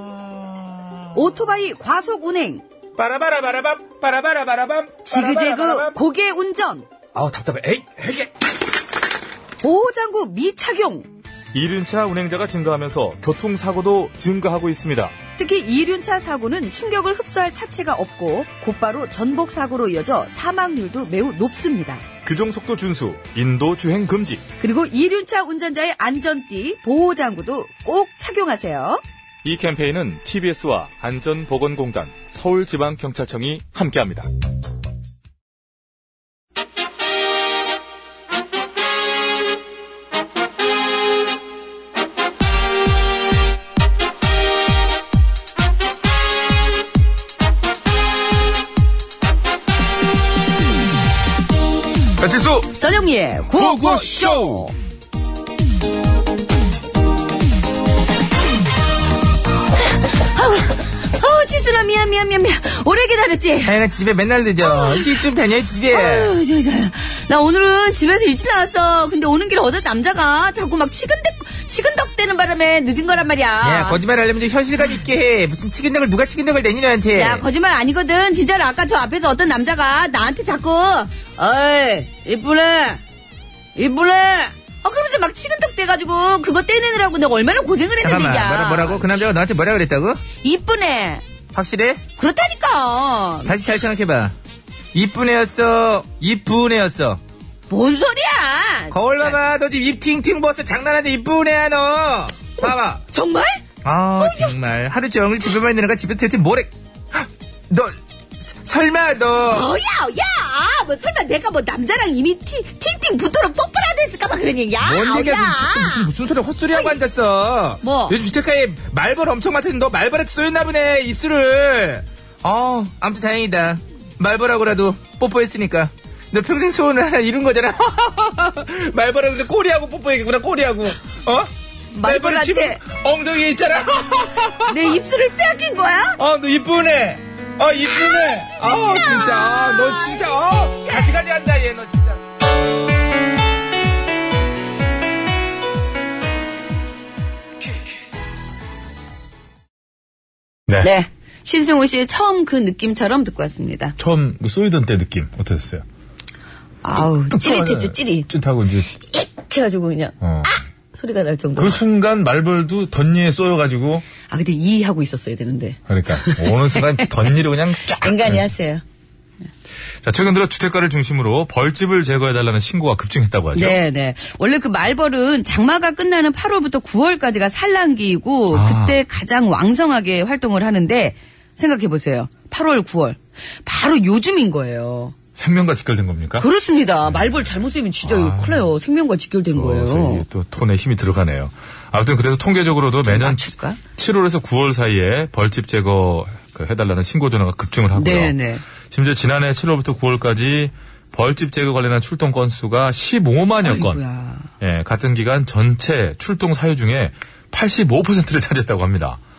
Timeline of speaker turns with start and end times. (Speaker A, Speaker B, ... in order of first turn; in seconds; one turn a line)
Speaker A: 1.1-2.6
Speaker B: 3.0-5.9
Speaker A: 5.0-6.9
Speaker C: 7.1-8.3
Speaker A: 9.6-11.1
Speaker C: 11.5-15.1
Speaker A: 15.4-22.0
Speaker C: 22.2-24.4
Speaker A: 24.6-29.0
Speaker C: 29.4-34.3
Speaker C: 52.2-52.7
Speaker A: 52.8-54.7
Speaker C: 53.5-54.5
Speaker A: 60.0-63.7
Speaker B: 63.6-66.4
Speaker A: 64.6-65.2
Speaker A: 65.9-74.0
Speaker B: 73.6-77.4
Speaker A: 77.1-83.0
Speaker A: 83.8-89.2
Speaker B: 88.0-90.2
Speaker A: 90.4-91.2
Speaker B: 91.5-92.0
Speaker A: 92.2-93.5
Speaker B: 93.5-94.3
Speaker B: 94.9-97.2
Speaker A: 97.7-99.3
Speaker B: 98.9-103.0
Speaker A: 102.6-103.6
Speaker B: 103.8-109.7
Speaker A: 104.2-104.5
Speaker A: 109.5-116.1
Speaker B: 114.8-131.5
Speaker A: 116.7-117.0
Speaker A: 117.8-118.2
Speaker A: 131.9-132.8
Speaker B: 132.0-134.7
Speaker A: 134.7-136.2
Speaker B: 136.2-142.2
Speaker A: 137.9-140.1
Speaker A: 140.8-141.1
Speaker A: 150.8-153.9
Speaker C: 154.0-155.8
Speaker A: 156.8-158.3
Speaker C: 157.0-158.9
Speaker A: 158.9-161.8
Speaker C: 160.2-160.5
Speaker C: 161.6-164.1
Speaker A: 164.3-168.8
Speaker C: 165.9-168.4
Speaker C: 170.0-173.8
Speaker A: 173.5-185.1
Speaker C: 178.5-179.0
Speaker C: 185.3-186.5
Speaker A: 186.4-190.2
Speaker C: 187.1-187.4
Speaker C: 188.0-188.6
Speaker C: 189.5-198.3
Speaker A: 193.0-193.8
Speaker A: 197.9-198.6
Speaker C: 198.9-204.0
Speaker A: 203.6-204.5
Speaker C: 204.6-209.2